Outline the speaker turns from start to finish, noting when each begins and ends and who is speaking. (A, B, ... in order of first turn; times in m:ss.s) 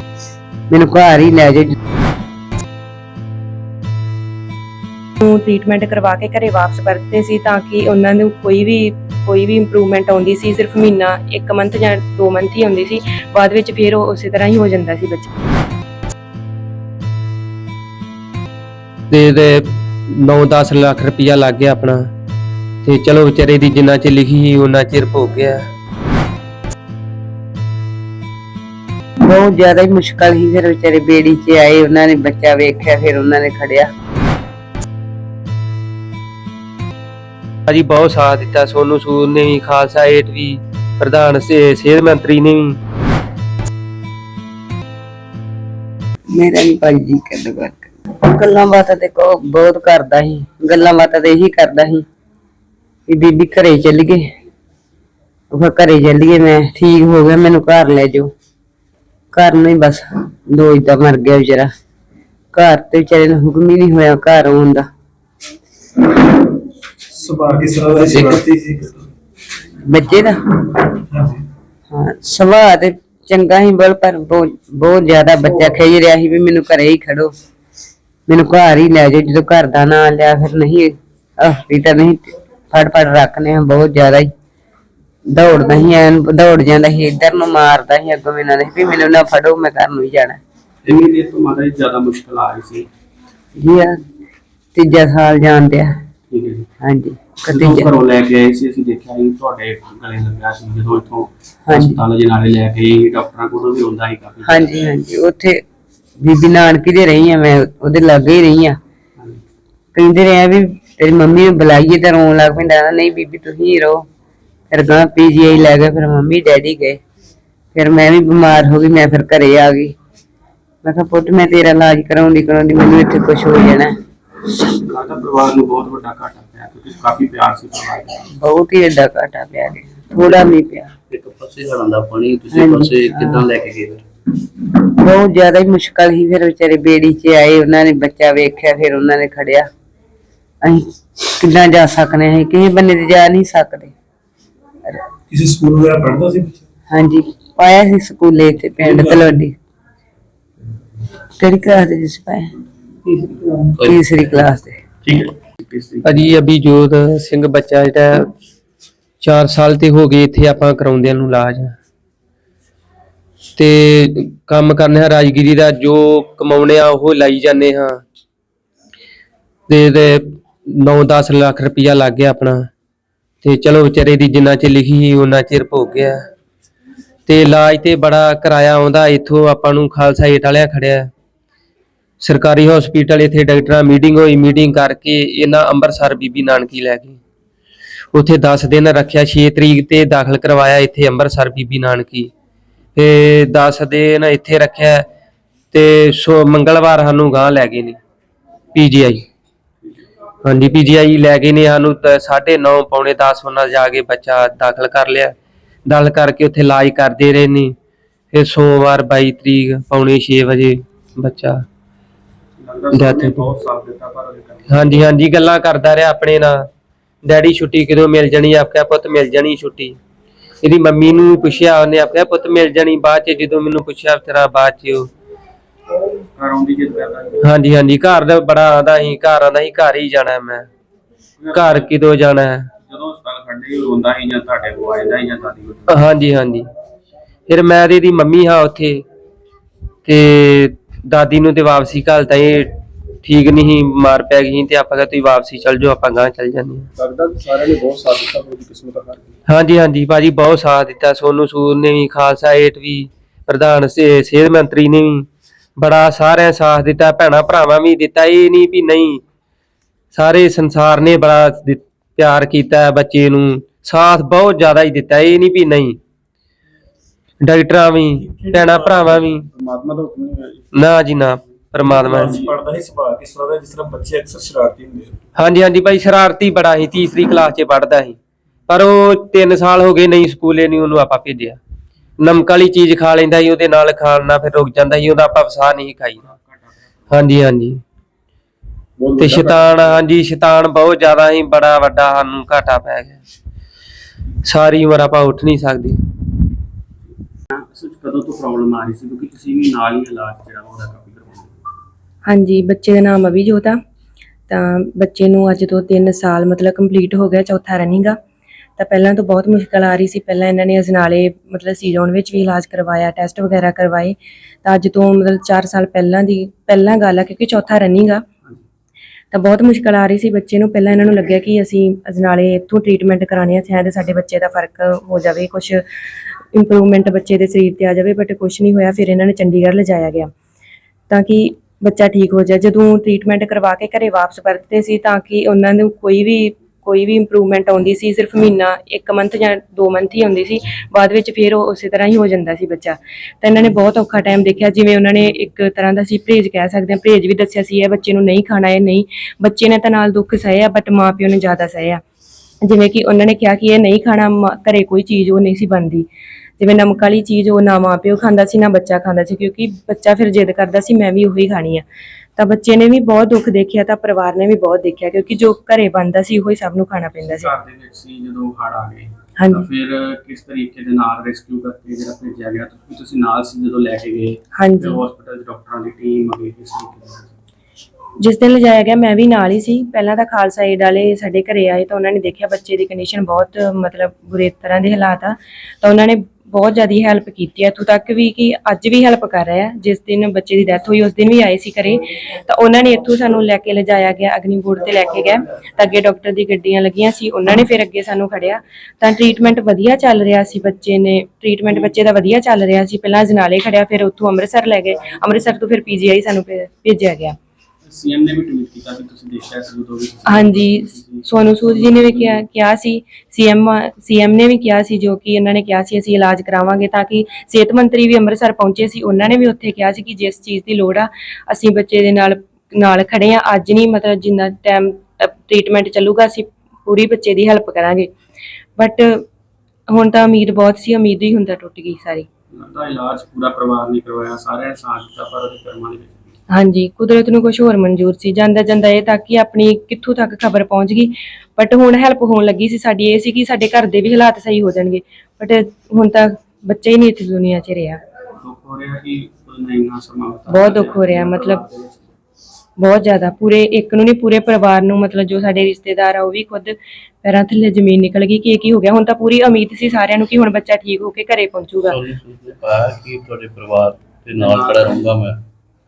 0:00.7-0:01.7 A
0:05.2-0:15.3 B
0:19.1-0:22.0 C
0:22.8-0:25.6 C
0:29.2-0:33.9 A
0:37.7-0:42.8 C
0:46.3-0:52.0 A
0:53.1-0:54.3 A
0:55.5-0:58.3 A
0:59.3-1:01.7 A
1:02.5-1:04.9 A
1:07.1-1:09.1 D
1:08.0-1:08.4 A
1:09.8-1:10.4 A
1:11.1-1:11.4 D
1:11.9-1:17.3 A
1:18.3-1:24.3 A
1:25.3-1:30.4 A
1:30.8-1:32.9 E
1:33.6-1:34.0 A
1:34.7-1:36.0 A
1:36.3-1:36.7 E
1:36.8-1:37.9 A
1:37.5-1:44.7 E
1:41.7-1:42.0 A
1:44.4-1:45.6 A
1:46.2-1:48.8 A
1:49.2-1:49.4 E
1:49.9-1:54.1 A
1:54.7-1:57.0 A
1:57.7-2:00.0 A
2:00.8-2:04.0 A
2:04.7-2:08.3 E
2:08.4-2:10.9 A
2:11.1-2:14.0 F
2:12.5-2:13.4 A
2:14.8-2:19.7 A
2:20.6-2:23.9 A
2:25.3-2:26.6 D
2:26.9-2:29.6 A
2:28.8-2:29.2 D
2:31.4-2:32.5 A
2:33.8-2:34.8 A
2:35.0-2:36.2 E
2:36.0-2:38.3 C
2:39.2-2:41.7 C
2:43.6-2:48.0 C
2:49.7-2:52.6 C
2:53.4-2:56.2 C
2:57.3-3:01.1 C
3:02.2-3:07.2 C
3:08.1-3:12.3 C
3:13.0-3:15.1 C
3:15.7-3:18.0 C
3:18.8-3:19.2 C
3:20.4-3:25.3 C
3:25.9-3:27.7 C
3:28.3-3:31.6 C
3:32.6-3:35.0 E
3:32.9-3:33.4 C
3:34.7-3:36.7 C
3:37.2-3:40.0 C
3:40.6-3:45.1 C
3:46.4-3:47.5 E
3:47.4-3:50.7 C
3:51.4-3:51.9 E
3:51.5-3:52.7 C
3:52.8-3:56.0 E
3:55.9-3:56.7 C
3:57.5-3:59.0 C
4:00.0-4:02.7 C
4:03.2-4:06.9 C
4:07.0-4:09.3 D
4:09.5-4:15.3 C
4:15.8-4:19.2 C
4:20.1-4:26.0 C
4:27.4-4:29.5 C
4:28.2-4:29.3 D
4:29.6-4:30.6 E
4:30.7-4:32.4 C
4:31.9-4:35.2 D
4:32.3-4:32.5 E
4:35.4-4:38.2 C
4:38.7-4:41.6 C
4:42.2-4:46.2 C
4:46.2-4:47.3 E
4:47.1-4:47.8 C
4:49.0-4:49.8 D
4:49.2-4:53.2 C
4:54.4-4:56.0 C
4:57.5-5:01.6 E
5:02.3-5:03.8 B
5:04.5-5:08.2 B
5:08.8-5:18.2 B
5:19.3-5:25.8 B
5:26.5-5:30.3 B
5:31.1-5:52.0 B
5:52.6-5:56.1 B
5:56.6-6:07.5 B
6:07.2-6:17.4 E
6:09.4-6:09.6 B
6:14.6-6:15.0 B
6:18.2-6:47.4 B
6:47.8-6:52.4 E
6:50.3-7:08.1 B
7:08.8-7:09.2 B
7:09.9-7:12.3 B
7:12.5-7:16.3 E
7:16.5-7:28.0 B
7:28.4-7:32.2 E
7:30.5-7:31.6 B
7:32.8-7:42.0 B
7:41.8-7:45.4 F
7:44.4-7:45.2 E